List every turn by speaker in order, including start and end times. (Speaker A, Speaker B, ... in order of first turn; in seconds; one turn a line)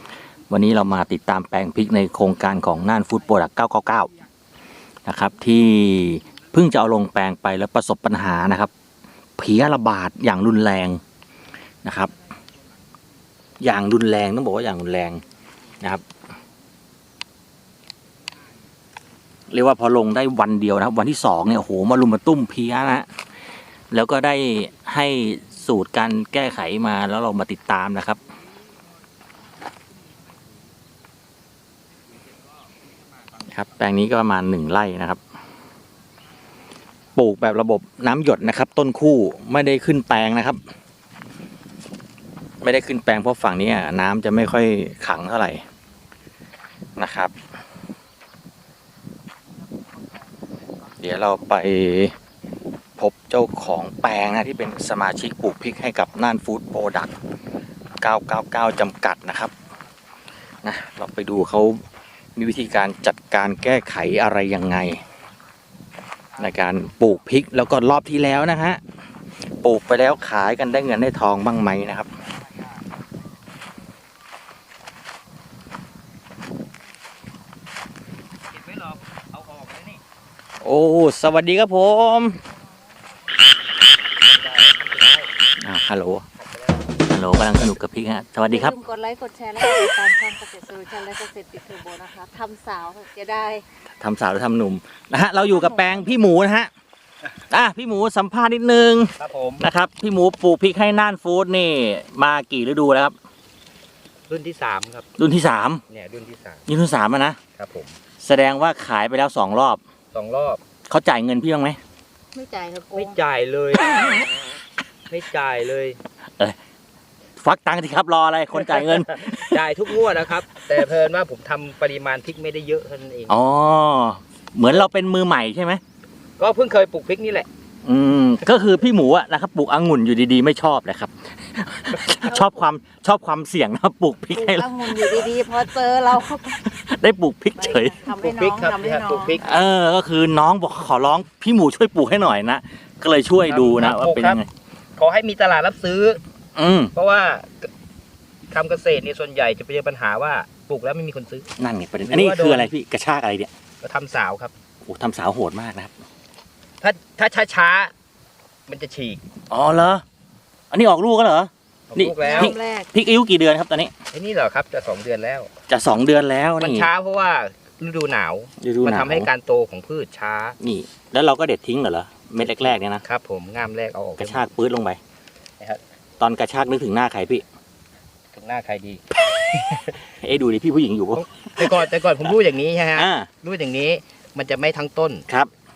Speaker A: 0.5-4.1
Speaker A: 5.1-8.7
Speaker A: 9.4-11.0
Speaker A: 11.8-12.1
Speaker A: 13.6-15.2
Speaker A: 15.8-16.1
Speaker A: 19.5-23.1
Speaker A: 23.9-28.2
Speaker A: 33.5-35.2
Speaker A: 37.1-40.6
Speaker A: 42.6-45.6
Speaker A: 47.0-47.3
Speaker A: 51.0-52.1
Speaker A: 53.0-57.1
Speaker A: 58.0-59.5
Speaker A: 60.6-61.8
Speaker A: 62.4-65.0
Speaker B: 66.3-67.1
Speaker A: 66.4-68.8
Speaker A: 69.4-72.1
Speaker B: 78.5-80.0
Speaker A: 80.6-82.4
Speaker B: 84.3-85.3
Speaker A: 85.6-86.2
Speaker B: 86.4-86.9
Speaker A: 87.1-88.8
Speaker C: 88.5-93.6
Speaker A: 94.0-96.7
Speaker C: 95.6-95.9
Speaker A: 97.5-103.2
Speaker B: 99.2-99.7
Speaker B: 104.3-105.1
Speaker A: 105.2-105.8
Speaker B: 105.9-106.7
Speaker A: 106.7-107.4
Speaker B: 107.5-108.0
Speaker A: 108.2-109.8
Speaker B: 110.1-110.6
Speaker A: 110.9-111.8
Speaker C: 112.3-113.2
Speaker B: 112.9-114.2
Speaker B: 115.1-116.0
Speaker A: 117.4-119.6
Speaker B: 118.7-123.4
Speaker A: 123.3-125.8
Speaker B: 126.4-127.5
Speaker A: 127.8-135.3
Speaker C: 132.2-132.5
Speaker C: 134.3-136.6
Speaker A: 136.5-138.0
Speaker C: 137.6-139.4
Speaker B: 138.2-139.5
Speaker A: 139.4-144.5
Speaker B: 143.4-144.4
Speaker B: 145.0-146.2
Speaker A: 146.6-146.9
Speaker B: 146.9-147.7
Speaker B: 148.5-151.5
Speaker A: 151.6-153.5
Speaker B: 152.0-152.7
Speaker B: 153.8-154.5
Speaker A: 154.8-156.0
Speaker B: 156.8-157.9
Speaker B: 158.7-159.2
Speaker A: 159.5-160.0
Speaker A: 160.7-163.9
Speaker B: 161.9-162.6
Speaker C: 162.2-162.9
Speaker B: 164.1-165.5
Speaker A: 165.7-166.9
Speaker B: 166.6-170.6
Speaker A: 168.6-169.3
Speaker A: 170.6-173.0
Speaker B: 172.4-174.4
Speaker A: 174.2-175.0
Speaker A: 176.2-177.4
Speaker B: 178.3-179.0
Speaker A: 179.7-181.8
Speaker B: 181.1-185.2
Speaker A: 182.9-183.3